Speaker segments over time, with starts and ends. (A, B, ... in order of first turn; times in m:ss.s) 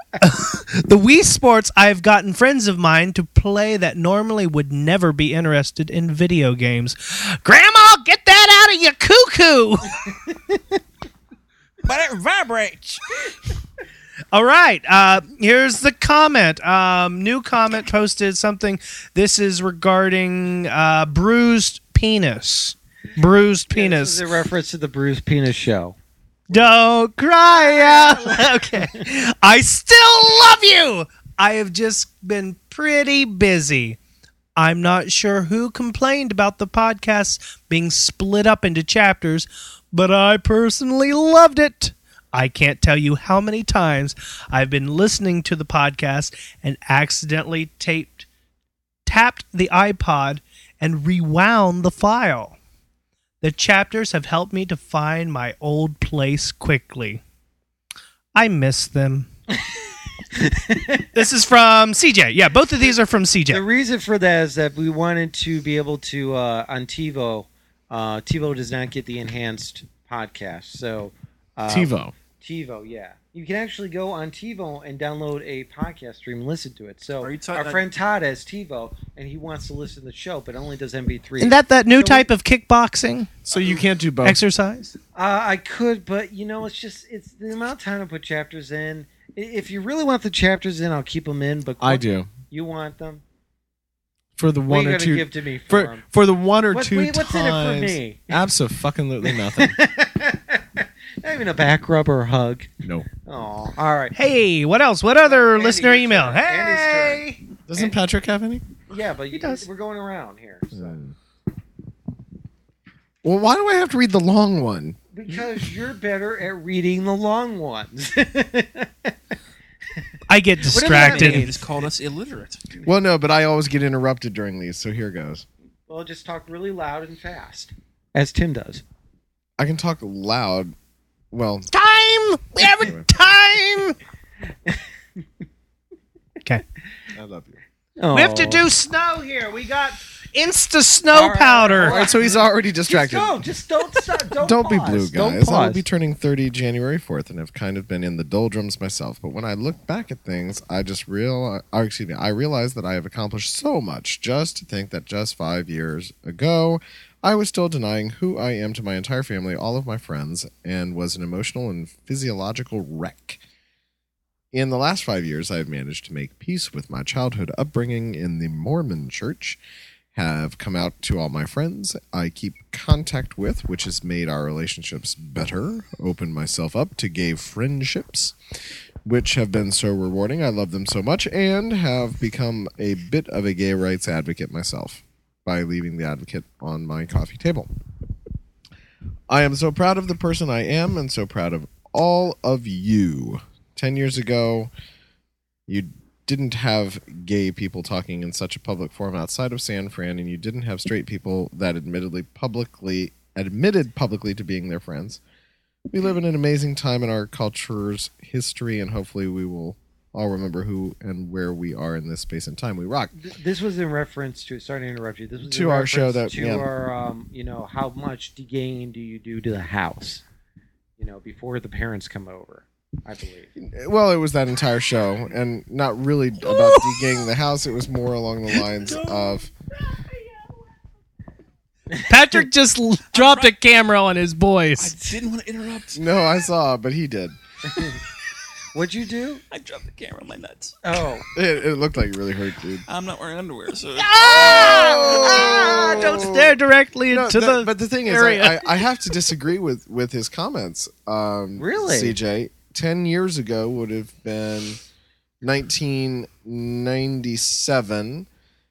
0:00.2-0:10.0 A
0:10.3-0:10.6 B
0:11.8-0:13.0 C
0:14.3-0:24.2 A
0:23.7-0:26.0 B
0:26.5-0:34.0 A
0:27.4-0:29.0 B
0:34.6-0:48.3 A
0:49.1-0:52.6 A
0:53.4-0:57.2 A
0:58.4-0:59.3 A
1:00.3-1:01.2 B
1:01.1-1:03.6 A
1:03.5-1:22.3 B
1:11.7-1:12.1 D
1:17.2-1:17.8 C
1:21.4-1:23.3 A
1:23.4-1:24.4 D
1:23.5-1:23.8 B
1:24.2-1:24.9 A
1:25.2-1:33.2 B
1:31.8-1:32.3 D
1:34.4-1:39.8 D
1:34.7-1:36.0 B
1:36.7-1:38.4 B
1:39.2-1:44.2 B
1:42.8-1:43.1 D
1:44.1-1:47.4 A
1:45.2-1:48.0 B
1:47.7-1:48.7 D
1:48.9-1:51.0 B
1:49.3-1:49.6 A
1:50.7-1:51.2 D
1:53.2-1:55.0 D
1:55.1-1:59.1 B
2:00.3-2:01.5 A
2:00.7-2:01.7 B
2:00.8-2:02.6 C
2:02.8-2:05.4 D
2:05.9-2:08.8 B
2:09.6-2:10.7 D
2:11.3-2:11.7 D
2:11.7-2:14.0 A
2:12.8-2:13.1 D
2:17.1-2:17.6 D
2:18.0-2:18.6 B
2:18.1-2:22.0 A
2:21.1-2:25.8 B
2:21.8-2:23.4 D
2:24.4-2:43.4 D
2:44.5-2:49.6 D
2:50.1-2:58.4 D
2:59.0-3:07.7 D
3:09.3-3:14.7 D
3:15.7-3:25.2 D
3:25.9-3:33.1 D
3:33.2-3:40.2 B
3:35.5-3:36.7 D
3:41.0-3:43.5 B
3:43.6-3:49.5 D
3:46.4-3:47.1 A
3:48.8-3:49.4 C
3:52.1-3:54.9 A
3:53.1-3:53.6 C
3:54.8-3:56.0 C
3:56.0-3:57.4 D
3:57.6-3:58.0 B
3:58.7-3:59.4 B
3:59.5-4:00.8 C
4:00.8-4:01.3 B
4:01.4-4:02.8 D
4:02.9-4:04.9 C
4:04.0-4:08.7 A
4:04.2-4:06.6 D
4:07.1-4:14.8 D
4:11.6-4:12.2 B
4:15.4-4:18.3 D